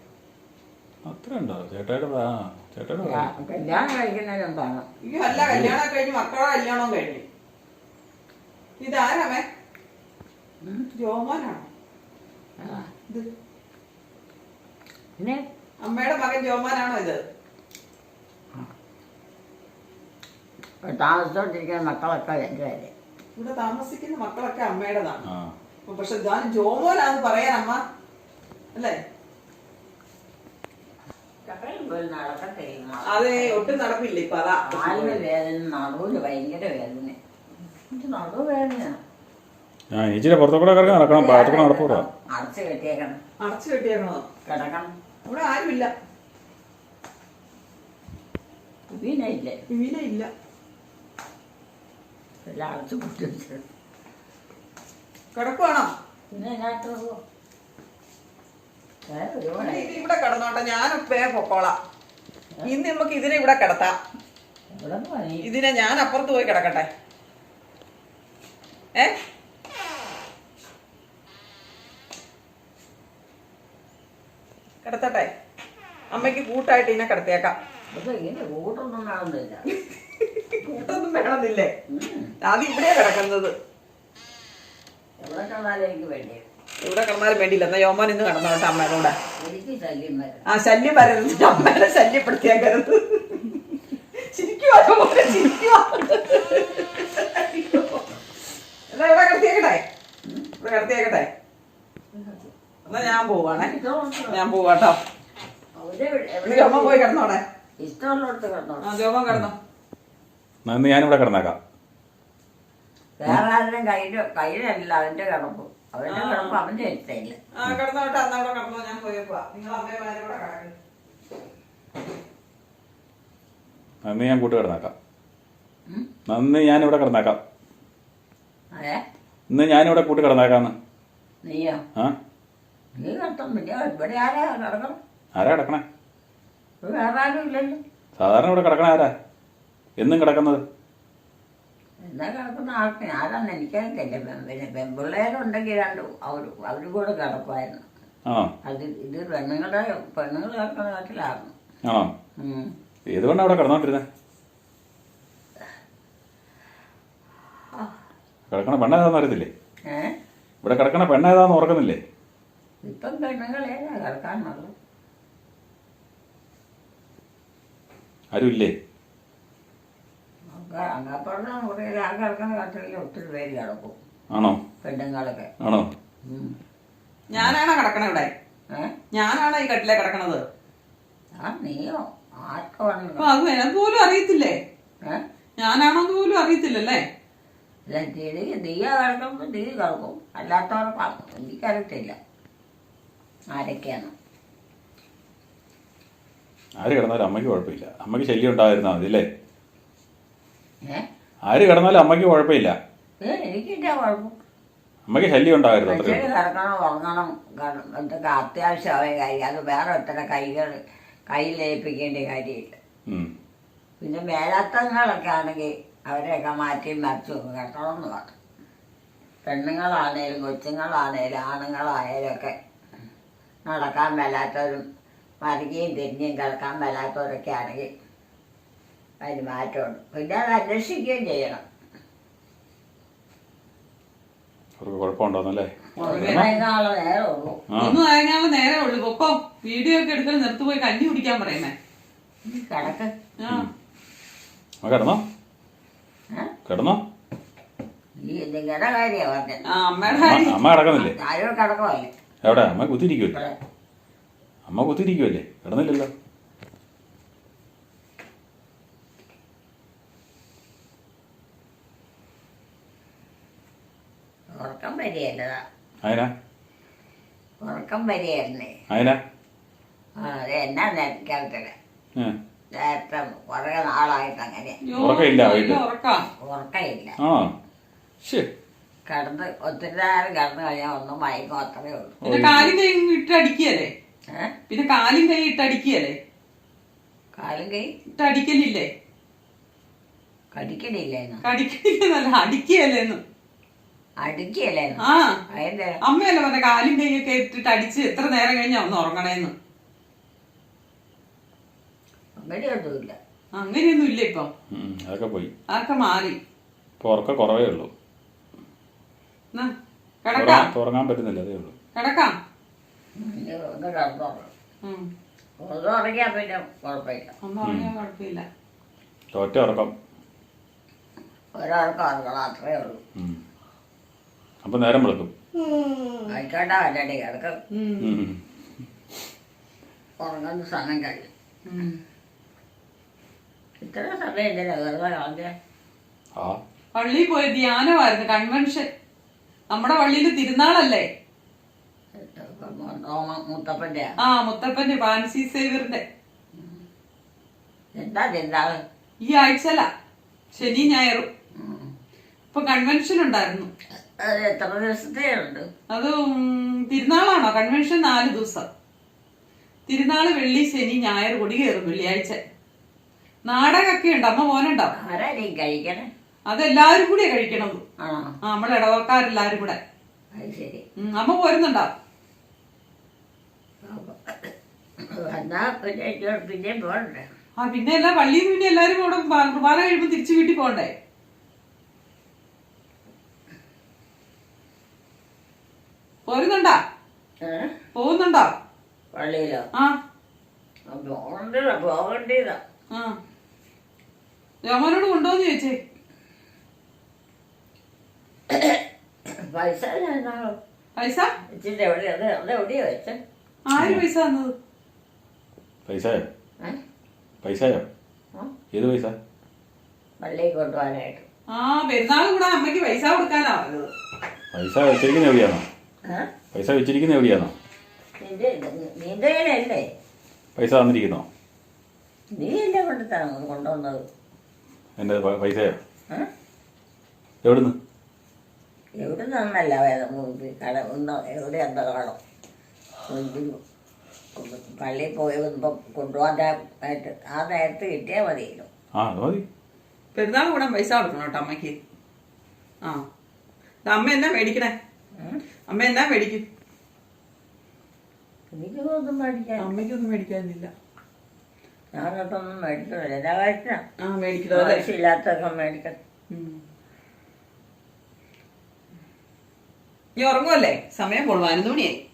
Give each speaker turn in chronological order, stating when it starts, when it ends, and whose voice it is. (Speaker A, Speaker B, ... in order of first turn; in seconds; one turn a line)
Speaker A: 1.0-3.3
Speaker B: 3.0-4.9
Speaker C: 5.0-7.2
Speaker A: 5.3-5.8
Speaker C: 8.8-9.4
Speaker B: 10.6-10.9
Speaker C: 10.9-11.7
Speaker B: 12.6-12.9
Speaker B: 15.2-15.5
Speaker C: 15.8-17.2
Speaker B: 20.8-22.9
Speaker C: 23.4-25.2
Speaker A: 25.2-25.5
Speaker C: 25.9-27.8
Speaker B: 31.4-33.8
Speaker C: 33.0-35.2
Speaker B: 34.6-37.2
Speaker B: 37.9-39.0
Speaker A: 39.9-42.0
Speaker B: 40.8-43.2
Speaker C: 43.4-44.2
Speaker B: 44.5-44.9
Speaker C: 45.2-45.9
Speaker B: 48.9-49.6
Speaker C: 49.7-50.3
Speaker B: 52.4-53.6
Speaker C: 55.3-55.9
Speaker B: 56.3-57.2
Speaker B: 59.1-60.0
Speaker C: 59.6-61.7
Speaker C: 62.6-64.0
Speaker B: 64.7-65.5
Speaker C: 65.4-66.9
Speaker C: 74.8-75.3
Speaker C: 76.1-77.5
Speaker B: 77.9-79.7
Speaker C: 79.8-81.7
Speaker B: 81.9-82.3
Speaker C: 82.4-83.5
Speaker B: 85.2-86.4
Speaker C: 86.8-89.2
Speaker B: 89.4-90.5
Speaker C: 90.5-93.6
Speaker C: 94.3-98.0
Speaker C: 98.9-99.8
Speaker C: 100.6-101.3
Speaker B: 102.2-102.4
Speaker C: 102.8-103.7
Speaker B: 103.5-104.4
Speaker C: 104.3-105.0
Speaker B: 105.8-107.0
Speaker C: 106.4-107.4
Speaker B: 107.8-108.9
Speaker C: 108.8-109.5
Speaker A: 110.7-111.6
Speaker B: 113.2-117.4
Speaker C: 116.1-116.6
Speaker C: 117.5-120.7
Speaker A: 124.0-124.9
Speaker A: 126.3-127.4
Speaker B: 128.7-129.0
Speaker A: 129.5-130.7
Speaker B: 131.4-131.8
Speaker B: 133.0-135.0
Speaker A: 135.3-135.8
Speaker B: 136.8-137.8
Speaker A: 138.2-139.1
Speaker A: 140.0-140.6
Speaker B: 142.0-147.8
Speaker A: 148.3-148.5
Speaker B: 148.6-151.5
Speaker A: 151.8-152.1
Speaker B: 152.4-152.7
Speaker A: 153.1-154.1
Speaker A: 158.5-159.5
Speaker B: 159.9-160.1
Speaker A: 160.6-162.0
Speaker B: 162.8-164.7
Speaker A: 168.3-168.7
Speaker B: 170.5-173.9
Speaker A: 174.3-174.6
Speaker B: 174.8-175.5
Speaker A: 175.6-175.9
Speaker B: 176.2-176.6
Speaker C: 177.3-178.3
Speaker C: 179.1-180.4
Speaker B: 181.4-183.3
Speaker C: 183.2-184.6
Speaker C: 185.6-187.0
Speaker B: 187.9-192.2
Speaker B: 193.5-194.1
Speaker A: 196.8-199.2
Speaker A: 201.5-202.8
Speaker B: 203.2-204.3
Speaker A: 205.1-206.3
Speaker B: 205.8-210.8
Speaker B: 211.3-212.8
Speaker B: 214.0-218.3
Speaker B: 219.4-222.5
Speaker B: 223.7-224.8
Speaker B: 225.4-227.9
Speaker B: 229.2-231.6
Speaker A: 234.8-236.5
Speaker B: 236.0-237.6
Speaker C: 236.0-236.6
Speaker A: 237.7-238.0
Speaker C: 237.8-241.7
Speaker B: 242.4-243.1
Speaker C: 243.4-243.7
Speaker A: 244.8-245.2
Speaker A: 246.7-247.0
Speaker B: 248.2-249.7
Speaker C: 249.7-250.6
Speaker A: 250.0-251.2
Speaker B: 250.9-252.1
Speaker A: 252.4-253.4
Speaker A: 254.7-256.1
Speaker B: 264.6-265.6
Speaker A: 266.0-266.3
Speaker B: 267.6-268.8
Speaker A: 268.9-269.2
Speaker B: 270.2-271.7
Speaker B: 272.7-274.8
Speaker C: 274.8-276.2
Speaker A: 274.9-275.8
Speaker B: 276.3-277.2
Speaker A: 277.2-277.5
Speaker A: 278.2-278.5
Speaker B: 279.1-282.2
Speaker A: 282.2-282.7
Speaker C: 282.2-283.9
Speaker C: 284.7-286.2
Speaker B: 287.4-287.9
Speaker C: 288.1-288.9
Speaker B: 290.5-291.4
Speaker C: 291.4-293.2
Speaker B: 294.2-296.0
Speaker C: 295.0-295.4
Speaker C: 296.0-299.5
Speaker B: 302.4-303.2
Speaker C: 303.5-304.5
Speaker A: 304.7-305.5
Speaker C: 305.7-306.4
Speaker A: 307.0-307.9
Speaker C: 310.2-310.7
Speaker A: 310.3-311.7
Speaker C: 311.9-312.3
Speaker B: 313.1-314.5
Speaker C: 314.8-315.1
Speaker B: 315.6-317.3
Speaker C: 317.4-318.4
Speaker A: 317.6-317.9
Speaker A: 319.3-319.9
Speaker B: 321.5-323.0
Speaker A: 323.1-323.4
Speaker A: 324.6-325.3
Speaker C: 325.7-326.2
Speaker B: 326.3-327.6
Speaker C: 327.7-328.1
Speaker A: 328.0-328.4
Speaker B: 330.2-331.3
Speaker C: 331.6-332.0
Speaker B: 333.8-335.5
Speaker A: 336.4-336.6
Speaker C: 336.9-338.9
Speaker C: 339.7-341.1
Speaker B: 342.1-344.1
Speaker C: 344.2-346.0
Speaker B: 347.9-348.8
Speaker C: 349.2-349.9
Speaker C: 350.5-351.3
Speaker B: 351.6-351.9
Speaker C: 352.5-353.7
Speaker B: 354.2-355.7
Speaker C: 355.9-358.7
Speaker C: 359.9-362.4
Speaker C: 363.5-364.9
Speaker B: 364.9-366.1
Speaker C: 366.5-367.8
Speaker B: 368.0-368.4
Speaker C: 368.4-369.8
Speaker B: 370.3-370.8
Speaker C: 371.0-371.9
Speaker B: 373.8-377.3
Speaker C: 377.6-380.9
Speaker C: 386.3-386.8
Speaker B: 387.4-387.7
Speaker C: 387.9-388.5
Speaker B: 389.1-389.7
Speaker B: 390.9-392.6
Speaker C: 392.9-393.2
Speaker C: 394.6-395.8
Speaker B: 398.5-400.6
Speaker C: 400.9-401.3
Speaker B: 401.5-403.2
Speaker C: 403.6-404.5
Speaker A: 403.8-404.0
Speaker A: 405.9-406.3
Speaker A: 407.4-407.9
Speaker A: 408.7-409.1
Speaker B: 410.2-411.2
Speaker C: 411.5-413.9
Speaker A: 414.5-415.6
Speaker A: 416.5-417.5
Speaker B: 418.2-419.9
Speaker A: 420.6-421.3
Speaker B: 422.4-424.1
Speaker A: 425.0-425.8
Speaker A: 427.4-427.8
Speaker B: 429.0-432.2
Speaker B: 433.1-433.6
Speaker B: 434.3-438.7
Speaker A: 438.9-439.4
Speaker C: 440.1-441.8
Speaker C: 443.8-444.7
Speaker C: 445.7-446.4
Speaker B: 448.5-449.8
Speaker C: 449.6-450.7
Speaker B: 451.9-453.8
Speaker C: 454.0-454.9
Speaker B: 454.5-456.0
Speaker C: 456.3-456.6
Speaker C: 460.2-462.0